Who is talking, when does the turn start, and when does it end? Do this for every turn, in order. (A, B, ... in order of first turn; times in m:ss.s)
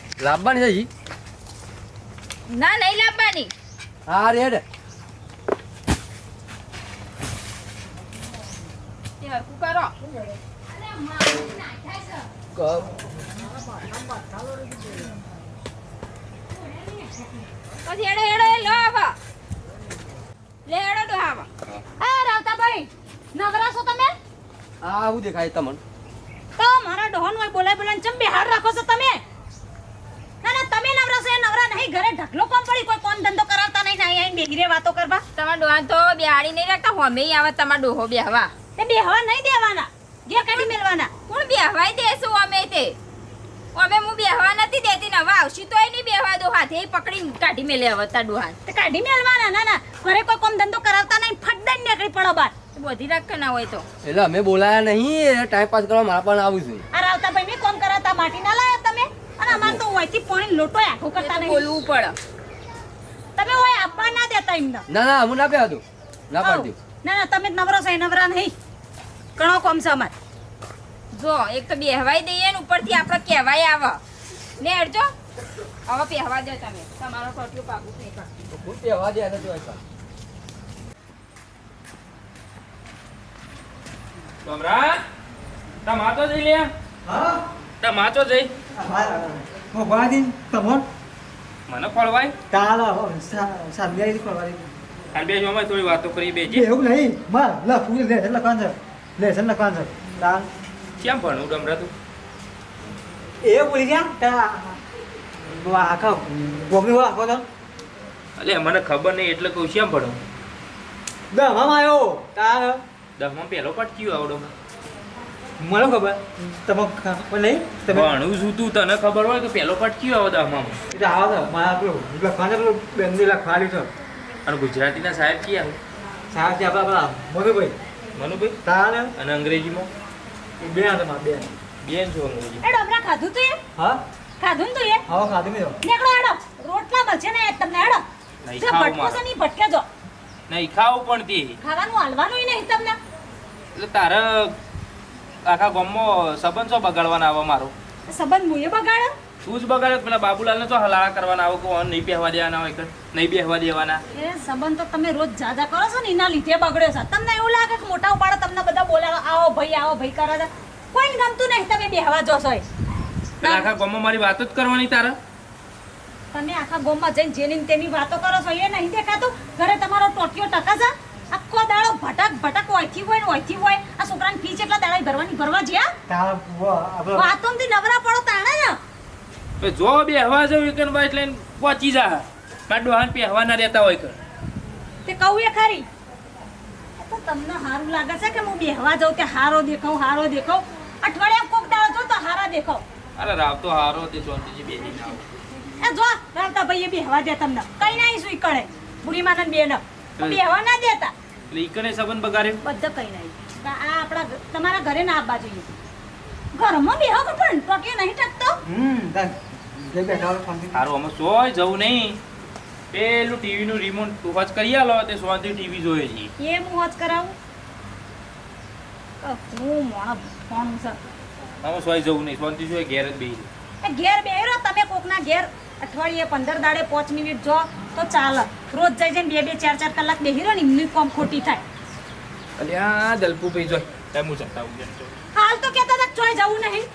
0:00.2-0:00.9 A
0:02.5-0:03.5 B
0:04.1-0:04.6 A
0:09.2-0:09.9 B
0:10.9-0:11.9 C
0:12.6-0:12.9 A
0:17.8-0:19.2 B
0:20.6-0:21.5 B
0:22.0-0:24.1 C
0:24.8-0:25.8 A
0:26.6-0:29.2 C
0:30.4-0:35.2 C
0:35.4-0:38.5 B
0:38.8-0:41.1 C
0:41.3-0:43.0 B
0:43.7-0:48.6 B
0:48.6-0:52.5 C
0:52.7-0:53.8 B
0:54.0-0:56.8 A
0:56.9-1:01.7 C
0:59.5-0:59.8 A
1:01.2-1:02.2 B
1:03.4-1:04.8 C
1:04.9-1:06.8 A
1:06.4-1:08.5 C
1:09.4-1:10.1 C
1:11.1-1:14.0 B
1:14.6-1:15.1 B
1:15.9-1:18.3 B
1:18.5-1:19.8 A
1:24.4-1:25.0 D
1:25.8-1:26.7 D
1:27.0-1:27.4 E
1:27.8-1:28.5 D
1:28.8-1:30.8 E
1:31.7-1:32.3 D
1:32.5-1:34.7 E
1:35.1-1:36.7 D
1:36.5-1:40.5 E
1:41.0-1:41.9 D
1:43.4-1:44.8 E
1:45.5-1:47.4 E
1:48.4-1:50.2 D
1:51.3-1:52.8 E
1:53.2-1:54.5 D
1:55.6-1:58.2 E
1:57.9-2:00.8 D
2:00.9-2:03.9 E
2:04.4-2:05.8 D
2:06.3-2:07.7 E
2:08.2-2:08.6 D
2:08.6-2:09.1 E
2:09.2-2:09.9 D
2:10.6-2:11.5 E
2:11.8-2:12.6 D
2:12.6-2:13.6 C
2:14.4-2:15.0 C
2:15.1-2:15.8 E
2:15.8-2:18.0 C
2:18.4-2:19.2 D
2:18.6-2:19.8 C
2:20.5-2:21.6 D
2:21.6-2:23.0 C
2:23.7-2:24.5 D
2:25.4-2:27.7 D
2:28.1-2:29.1 C
2:29.4-2:34.0 D
2:34.1-2:42.6 C
2:43.4-2:45.2 D
2:43.4-2:43.7 C
2:46.3-2:55.9 C
2:56.1-2:57.3 E
2:57.1-2:58.8 C
2:59.6-3:04.2 D
3:05.0-3:05.8 C
3:07.0-3:12.8 C
3:13.2-3:15.2 D
3:15.8-3:21.1 C
3:21.5-3:22.6 D
3:22.6-3:25.7 C
3:26.6-3:28.6 C
3:28.6-3:30.8 E
3:30.7-3:32.2 D
3:32.9-3:36.3 D
3:36.4-3:37.3 C
3:39.2-3:41.0 C
3:41.6-3:43.5 D
3:43.8-3:51.6 C
3:52.6-3:55.2 D
3:55.3-3:56.9 C